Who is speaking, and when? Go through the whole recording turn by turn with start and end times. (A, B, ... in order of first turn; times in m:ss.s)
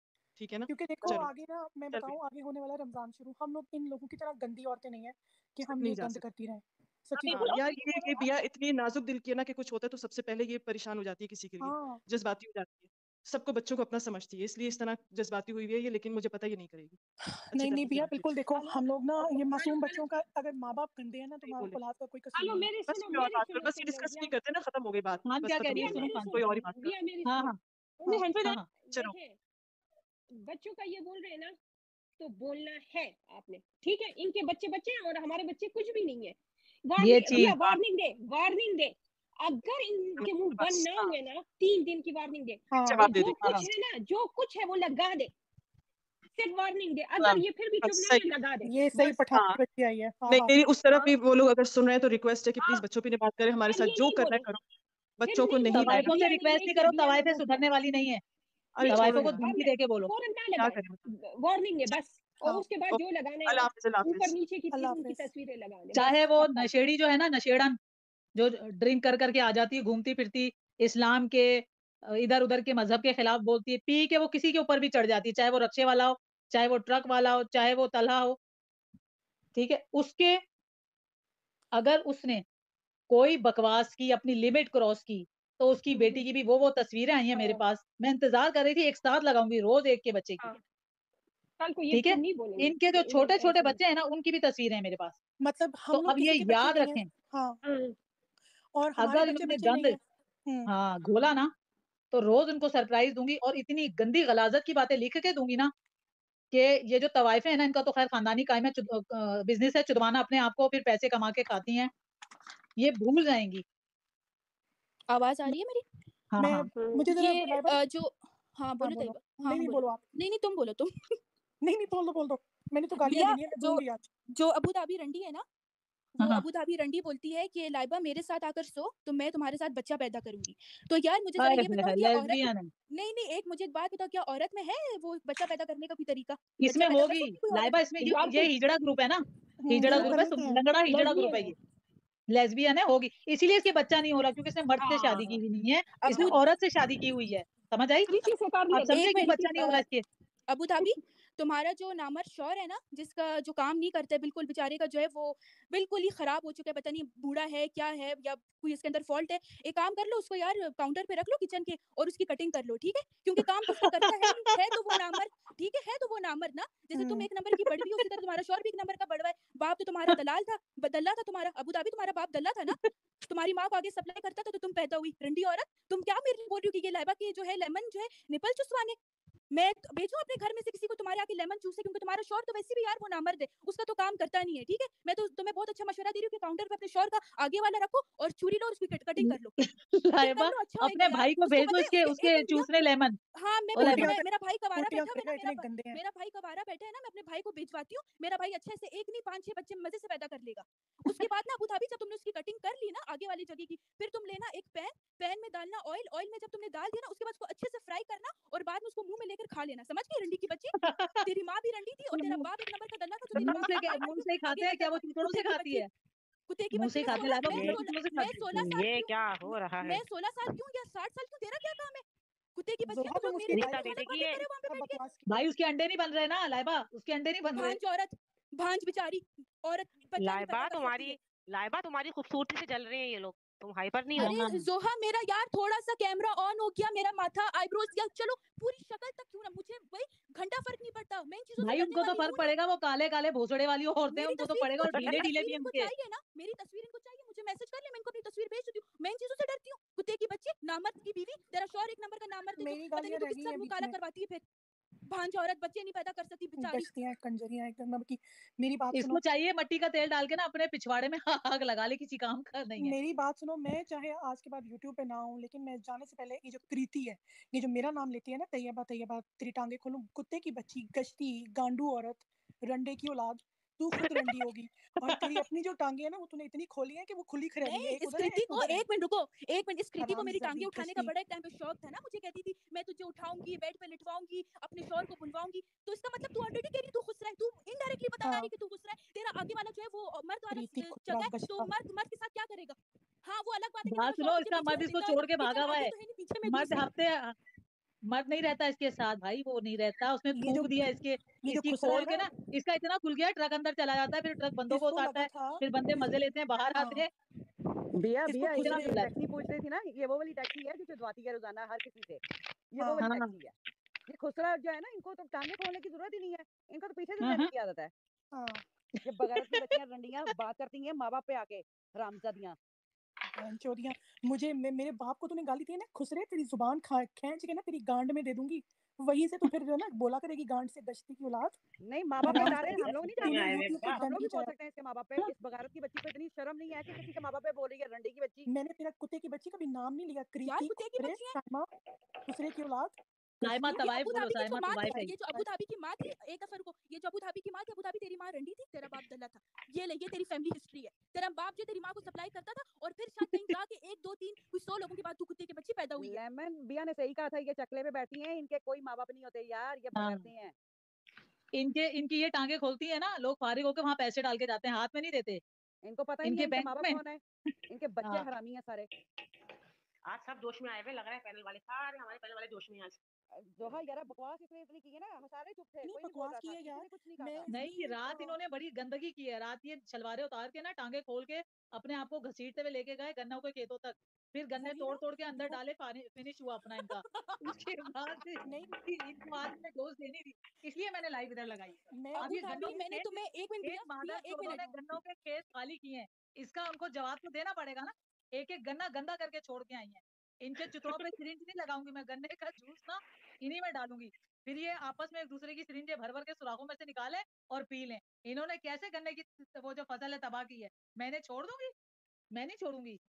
0:00.4-0:01.3 A
0:00.7-0:07.7 B
0:05.6-0:06.2 A
0:07.2-0:08.3 C
0:07.2-0:17.0 A
0:11.6-0:12.0 B
0:17.4-0:22.7 B
0:17.5-0:18.2 A
0:21.5-0:21.8 A
0:22.3-0:24.3 D
0:22.9-0:26.9 A
0:25.2-0:26.7 E
0:25.6-0:29.4 D
0:27.2-0:27.6 E
0:30.4-0:31.5 D
0:32.2-0:45.3 D
0:37.0-0:37.6 E
0:37.5-0:37.8 A
0:42.7-0:43.3 B
0:42.7-0:43.7 A
0:46.4-0:48.9 D
0:47.2-0:48.3 A
0:48.6-0:51.1 B
0:48.9-0:49.6 A
0:50.3-0:54.6 A
0:53.7-0:54.5 D
0:55.2-0:56.4 A
0:55.2-0:57.7 D
0:55.7-0:58.2 E
0:58.7-0:59.5 A
0:58.8-1:06.7 D
0:58.9-1:00.1 E
1:00.5-1:01.0 A
1:02.4-1:04.4 A
1:04.7-1:05.3 B
1:05.9-1:07.8 E
1:08.4-1:18.4 E
1:19.5-1:20.4 E
1:21.7-1:22.4 E
1:23.1-1:30.4 E
1:25.9-1:26.2 D
1:27.3-1:27.6 D
1:31.6-1:33.8 D
1:31.9-1:35.1 E
1:35.4-1:37.6 B
1:35.9-1:37.1 E
1:37.6-1:37.9 D
1:38.7-1:40.7 B
1:39.0-1:40.0 E
1:40.7-1:41.5 E
1:42.1-1:45.7 E
1:46.5-1:51.9 E
1:52.8-1:53.6 E
1:55.1-1:55.8 F
1:56.3-1:56.7 E
1:56.4-1:57.8 B
1:56.7-1:57.0 D
1:57.1-2:00.9 F
1:58.8-2:00.0 B
2:01.6-2:04.1 B
2:03.0-2:05.4 F
2:06.2-2:17.8 F
2:11.4-2:12.7 E
2:16.6-2:21.5 E
2:18.0-2:18.5 D
2:19.6-2:20.6 B
2:19.8-2:20.2 D
2:20.9-2:21.5 D
2:22.3-2:28.1 E
2:24.8-2:25.4 D
2:26.0-2:26.4 D
2:28.1-2:29.8 D
2:28.7-2:30.0 E
2:28.9-2:29.5 F
2:30.5-2:59.0 F
2:46.9-2:47.3 B
2:59.5-3:12.7 F
3:09.2-3:13.2 E
3:13.3-3:35.8 F
3:13.7-3:14.2 E
3:13.8-3:16.0 B
3:30.8-3:31.2 E
3:32.1-3:32.5 E
3:33.3-3:35.9 E
3:36.5-3:42.0 F
3:36.7-3:38.6 E
3:38.5-3:40.0 C
3:42.5-3:45.0 F
3:42.9-3:45.4 B
3:43.5-3:44.4 C
3:45.3-3:47.8 E
3:47.5-3:51.2 F
3:50.2-3:54.3 C
3:54.2-3:54.6 E
3:54.2-4:02.5 F
4:01.6-4:05.9 E
4:04.1-4:14.4 F
4:12.6-4:14.0 B
4:15.1-4:16.9 F
4:16.6-4:19.2 B
4:18.9-4:23.0 E
4:22.8-4:38.8 B
4:37.6-4:56.9 F
4:40.0-4:41.1 B
4:48.2-4:48.5 B
4:50.5-4:51.7 B
4:53.8-4:55.9 E
4:56.4-4:57.3 E
4:58.1-5:07.1 E
5:00.3-5:00.7 B
5:01.4-5:02.3 B
5:04.7-5:06.0 B
5:06.7-5:07.1 B
5:08.0-5:13.5 G
5:08.2-5:09.1 B
5:08.5-5:09.1 E
5:12.8-5:13.0 B
5:13.0-5:13.3 E
5:14.1-5:17.9 G
5:17.2-5:17.5 E
5:18.3-5:18.6 B
5:19.0-5:22.6 G
5:19.3-5:19.6 E
5:23.4-5:31.6 B
5:31.8-5:38.5 G
5:32.2-5:34.5 B
5:32.3-5:34.0 C
5:38.5-5:41.7 B
5:40.4-5:41.4 F
5:42.3-5:43.7 B
5:43.4-5:45.1 E
5:43.6-5:56.2 F
5:56.0-6:00.5 G
6:00.0-6:00.2 E
6:01.5-6:05.4 E
6:05.8-6:08.9 G
6:06.2-6:07.0 E
6:08.0-6:08.3 E
6:10.1-6:13.0 C
6:13.3-6:17.5 G
6:15.8-6:18.4 B
6:17.5-6:27.0 E
6:24.6-6:25.6 B
6:27.8-6:51.7 E
6:28.4-6:28.8 B
6:31.9-6:32.8 B
6:32.1-6:34.8 F
6:52.3-6:53.0 E